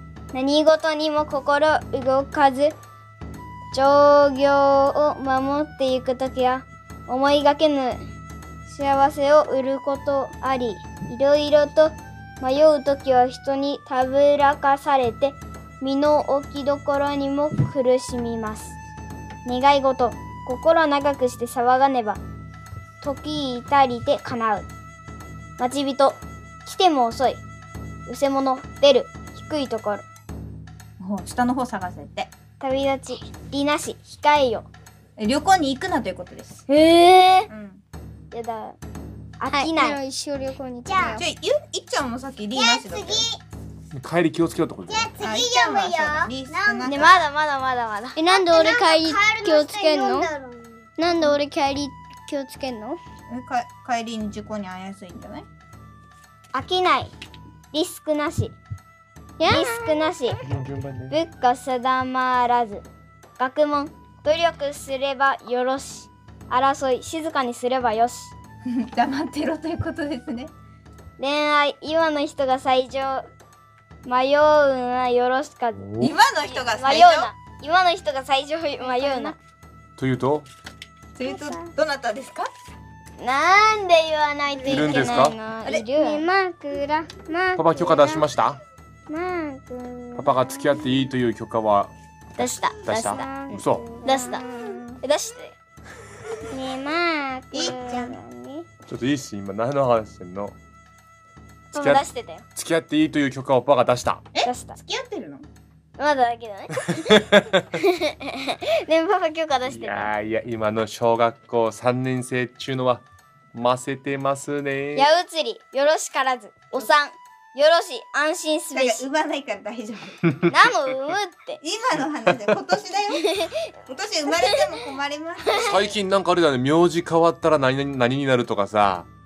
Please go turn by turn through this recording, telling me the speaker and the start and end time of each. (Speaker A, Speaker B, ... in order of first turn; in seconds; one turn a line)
Speaker A: 0.3-2.7
Speaker A: 3.7-8.0
Speaker A: 8.7-18.8
Speaker A: 19.4-22.2
Speaker A: 23.0-24.7
Speaker A: 25.6-27.4
Speaker A: 28.1-30.0
Speaker B: 31.0-32.3
Speaker A: 32.6-34.7
Speaker B: 35.2-36.6
Speaker A: 36.7-37.5
Speaker B: 37.5-37.8
Speaker A: 38.3-38.8
Speaker A: 39.4-40.0
Speaker C: 39.5-41.2
Speaker D: 40.8-41.1
Speaker B: 41.1-43.3
Speaker D: 42.5-43.4
Speaker E: 43.9-45.1
Speaker D: 44.9-46.9
Speaker B: 45.2-47.1
Speaker A: 46.8-50.3
Speaker C: 48.1-50.1
Speaker D: 48.5-50.9
Speaker A: 51.0-52.8
Speaker C: 52.3-53.0
Speaker B: 53.3-55.5
Speaker A: 56.5-57.1
Speaker A: 57.7-58.5
Speaker C: 59.4-60.1
Speaker A: 59.4-60.4
Speaker E: 60.4-61.1
Speaker A: 61.1-62.8
Speaker A: 63.4-68.3
Speaker B: 68.7-70.5
Speaker A: 71.2-73.2
Speaker A: 74.0-75.9
Speaker E: 75.8-76.1
Speaker B: 76.0-77.3
Speaker A: 76.5-79.4
Speaker C: 78.8-79.4
Speaker E: 80.0-80.5
Speaker B: 81.1-82.5
Speaker C: 81.3-81.7
Speaker A: 83.2-86.2
Speaker E: 84.7-85.4
Speaker B: 84.7-85.0
Speaker C: 86.0-88.2
Speaker E: 87.5-88.6
Speaker C: 89.1-90.6
Speaker E: 90.2-91.9
Speaker A: 92.4-93.3
Speaker E: 92.4-93.8
Speaker C: 93.0-95.0
Speaker A: 94.0-94.4
Speaker A: 95.0-95.5
Speaker C: 96.5-98.6
Speaker B: 97.5-98.1
Speaker E: 98.9-100.5
Speaker A: 101.7-102.4
Speaker E: 101.7-102.0
Speaker E: 102.5-104.2
Speaker B: 104.3-105.5
Speaker A: 104.4-104.8
Speaker A: 106.0-110.1
Speaker E: 107.1-107.4
Speaker E: 109.6-115.1
Speaker A: 114.9-119.0
Speaker B: 118.7-120.3
Speaker A: 120.5-121.6
Speaker B: 121.6-123.2
Speaker A: 123.1-123.5
Speaker B: 123.9-125.8
Speaker A: 125.5-125.8
Speaker E: 125.7-129.1